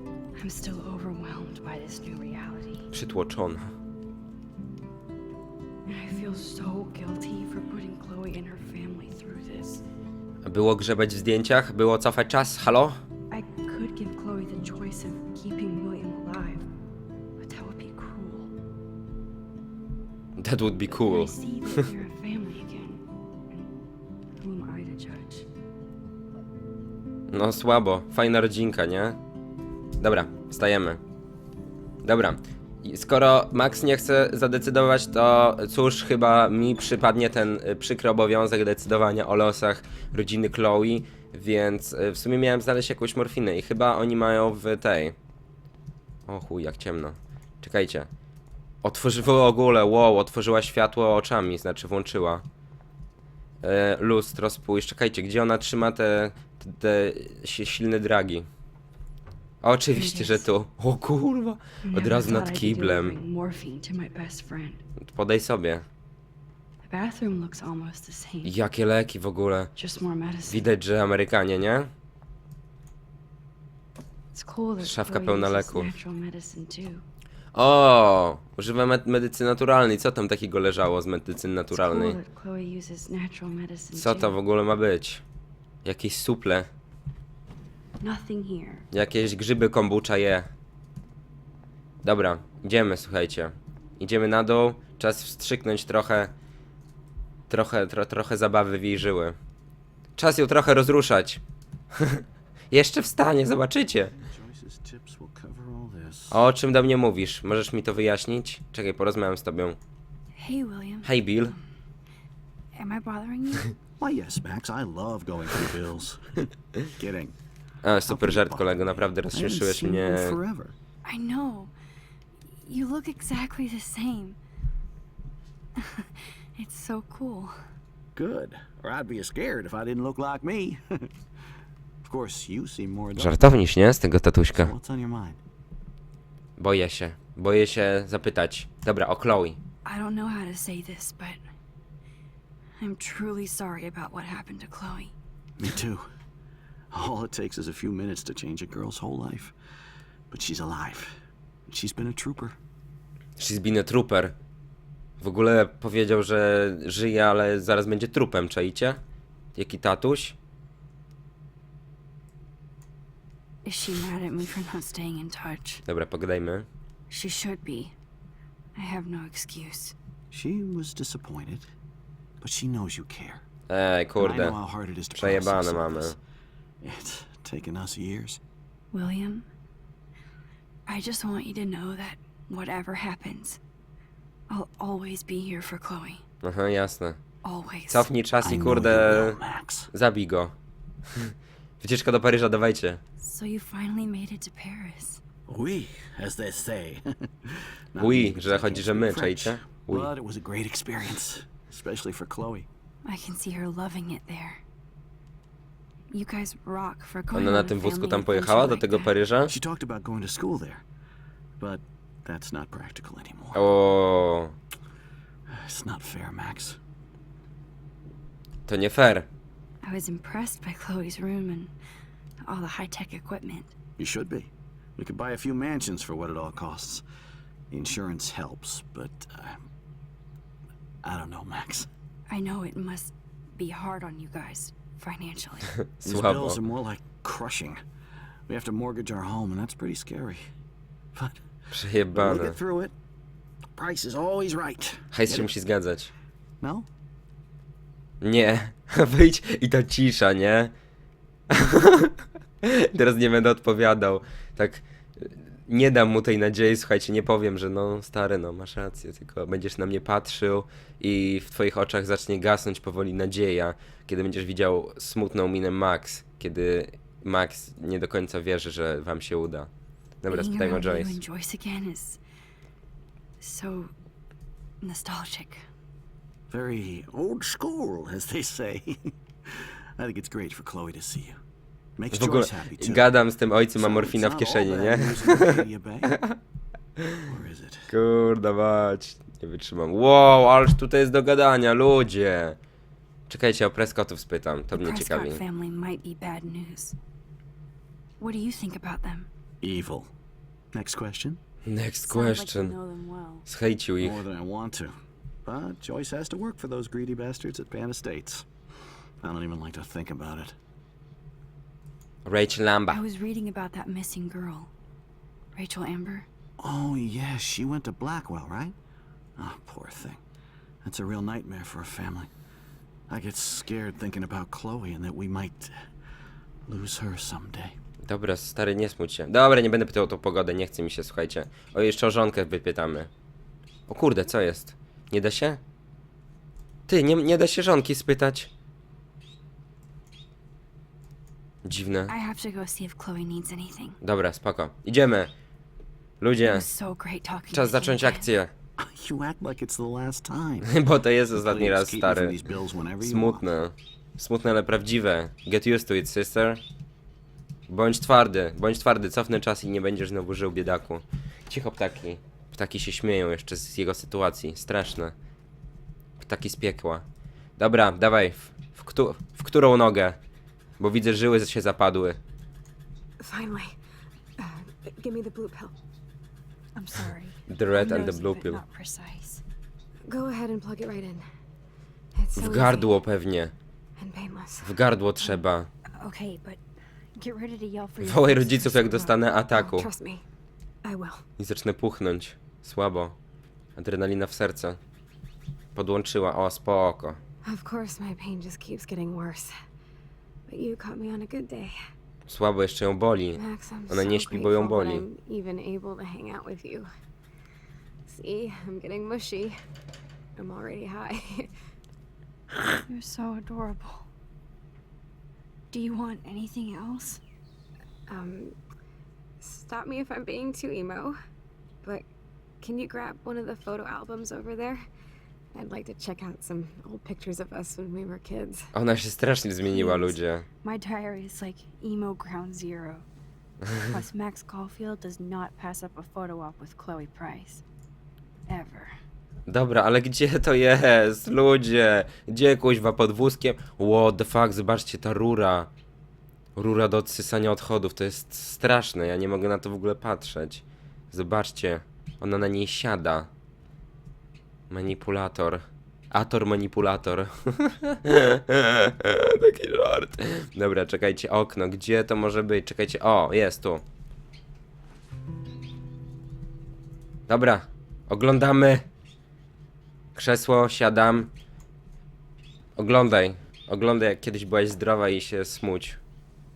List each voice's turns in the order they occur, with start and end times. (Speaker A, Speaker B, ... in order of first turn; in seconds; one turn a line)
Speaker A: 0.3-2.9
Speaker B: 2.9-3.7
Speaker A: 5.9-9.8
Speaker B: 10.4-13.0
Speaker A: 13.3-16.6
Speaker A: 17.4-18.5
Speaker B: 20.4-21.8
Speaker A: 20.9-23.7
Speaker A: 24.4-25.4
Speaker B: 27.3-29.2
Speaker B: 30.0-31.0
Speaker B: 32.0-45.1
Speaker B: 46.3-48.1
Speaker B: 48.8-52.4
Speaker B: 53.6-58.5
Speaker B: 59.6-63.1
Speaker A: 59.9-60.5
Speaker A: 61.8-64.8
Speaker B: 65.0-65.8
Speaker A: 66.8-68.5
Speaker B: 68.4-69.7
Speaker A: 69.8-70.7
Speaker B: 70.5-71.9
Speaker A: 74.3-77.0
Speaker B: 74.8-75.9
Speaker B: 77.5-82.2
Speaker A: 81.7-84.4
Speaker B: 84.0-85.2
Speaker B: 85.8-86.7
Speaker A: 88.0-88.8
Speaker B: 88.9-90.5
Speaker B: 92.0-96.3
Speaker B: 97.5-99.4
Speaker B: 100.2-101.4
Speaker B: 101.9-104.1
Speaker C: 103.9-106.4
Speaker B: 106.3-109.8
Speaker A: 110.3-111.6
Speaker B: 111.0-111.5
Speaker A: 112.7-113.7
Speaker C: 114.0-117.3
Speaker B: 117.8-120.4
Speaker C: 118.1-120.7
Speaker A: 121.0-121.7
Speaker A: 122.5-124.4
Speaker A: 125.8-127.5
Speaker C: 128.1-131.1
Speaker C: 132.0-133.6
Speaker B: 133.2-134.7
Speaker C: 134.5-135.4
Speaker B: 136.6-139.6
Speaker A: 139.8-141.4
Speaker A: 142.8-145.1
Speaker C: 145.6-146.1
Speaker C: 146.9-149.5
Speaker C: 150.3-151.2
Speaker C: 151.7-152.6
Speaker B: 153.4-154.3
Speaker B: 155.2-159.0
Speaker B: 159.5-160.3
Speaker A: 163.6-165.8
Speaker B: 165.8-166.7
Speaker A: 167.1-167.9
Speaker A: 168.7-169.9
Speaker C: 170.3-171.7
Speaker C: 172.4-173.4
Speaker B: 173.7-174.6
Speaker C: 174.2-176.2
Speaker B: 175.1-176.2
Speaker C: 176.8-178.4
Speaker A: 178.9-179.5
Speaker A: 180.9-183.6
Speaker A: 184.5-186.2
Speaker B: 186.4-187.2
Speaker A: 187.4-188.1
Speaker B: 187.9-189.4
Speaker C: 188.4-189.9
Speaker B: 189.9-190.5
Speaker B: 191.1-193.0
Speaker A: 193.2-195.2
Speaker C: 195.5-202.7
Speaker B: 198.0-200.1
Speaker A: 203.0-204.6
Speaker A: 206.1-209.1
Speaker B: 207.3-209.5
Speaker C: 209.5-210.8
Speaker C: 211.6-213.6
Speaker B: 213.5-214.5
Speaker C: 215.5-216.8
Speaker B: 218.7-219.3
Speaker A: 219.8-221.7
Speaker A: 222.4-223.7
Speaker C: 224.0-227.0
Speaker C: 227.7-229.7
Speaker C: 231.0-231.9
Speaker A: 232.3-235.7
Speaker B: 235.9-236.6
Speaker C: 236.0-237.8
Speaker C: 238.5-240.5
Speaker C: 241.1-241.4
Speaker B: 241.7-242.6
Speaker C: 242.1-242.9
Speaker C: 243.8-245.5
Speaker B: 245.1-246.1
Speaker C: 246.6-246.9
Speaker B: 248.2-250.7
Speaker B: 251.5-269.7
Speaker B: 270.2-271.2
Speaker A: 270.3-272.2
Speaker A: 273.4-273.9
Speaker A: 274.8-275.6
Speaker C: 276.5-281.4
Speaker C: 282.0-283.1
Speaker B: 282.1-286.4
Speaker C: 283.8-286.2
Speaker C: 287.2-287.9
Speaker B: 287.9-292.6
Speaker B: 293.3-295.4
Speaker A: 294.7-296.9
Speaker A: 298.2-299.3
Speaker C: 299.6-300.1
Speaker C: 300.7-301.4
Speaker B: 301.6-302.7
Speaker A: 302.0-303.4
Speaker B: 303.5-304.2
Speaker C: 304.0-308.5
Speaker C: 309.2-310.6
Speaker B: 312.2-313.0
Speaker A: 312.9-314.7
Speaker A: 315.5-316.3
Speaker C: 316.6-318.8
Speaker C: 319.4-320.2
Speaker C: 320.8-322.3
Speaker C: 323.1-325.8
Speaker C: 326.6-327.8
Speaker B: 328.0-333.1
Speaker B: 333.9-335.6
Speaker B: 336.9-338.5
Speaker B: 341.6-342.1
Speaker A: 342.1-344.0
Speaker B: 344.0-345.3
Speaker B: 346.2-346.6
Speaker A: 346.4-348.3
Speaker B: 347.5-348.5
Speaker C: 348.8-350.7
Speaker B: 350.6-352.4
Speaker C: 351.3-353.4
Speaker B: 353.0-356.6
Speaker B: 357.7-365.1
Speaker B: 366.2-367.0
Speaker B: 367.6-370.2
Speaker B: 370.8-372.2
Speaker D: 373.2-373.8
Speaker D: 374.4-375.7
Speaker A: 376.7-379.4
Speaker B: 377.5-378.6
Speaker D: 380.1-381.2
Speaker D: 382.1-382.9
Speaker B: 382.4-383.5
Speaker D: 384.0-385.4
Speaker B: 384.6-385.7
Speaker A: 386.0-386.6
Speaker A: 387.2-389.2
Speaker B: 388.0-389.9
Speaker D: 389.5-390.2
Speaker D: 390.8-391.2
Speaker B: 391.4-393.1
Speaker B: 393.8-394.8
Speaker B: 395.7-397.2
Speaker D: 397.4-399.5
Speaker D: 400.5-401.8
Speaker B: 402.3-405.1
Speaker D: 403.4-406.9
Speaker D: 408.1-409.6
Speaker D: 410.4-411.5
Speaker A: 412.8-414.1
Speaker A: 415.7-417.2
Speaker D: 418.1-418.6
Speaker D: 419.4-421.2
Speaker D: 422.6-424.8
Speaker D: 425.5-428.7
Speaker B: 428.7-430.4
Speaker A: 429.7-433.0
Speaker A: 433.8-437.6
Speaker A: 438.5-439.0
Speaker B: 439.5-445.7
Speaker B: 446.5-453.3
Speaker B: 454.7-463.8
Speaker B: 467.3-468.8
Speaker B: 470.1-471.3
Speaker B: 472.8-476.0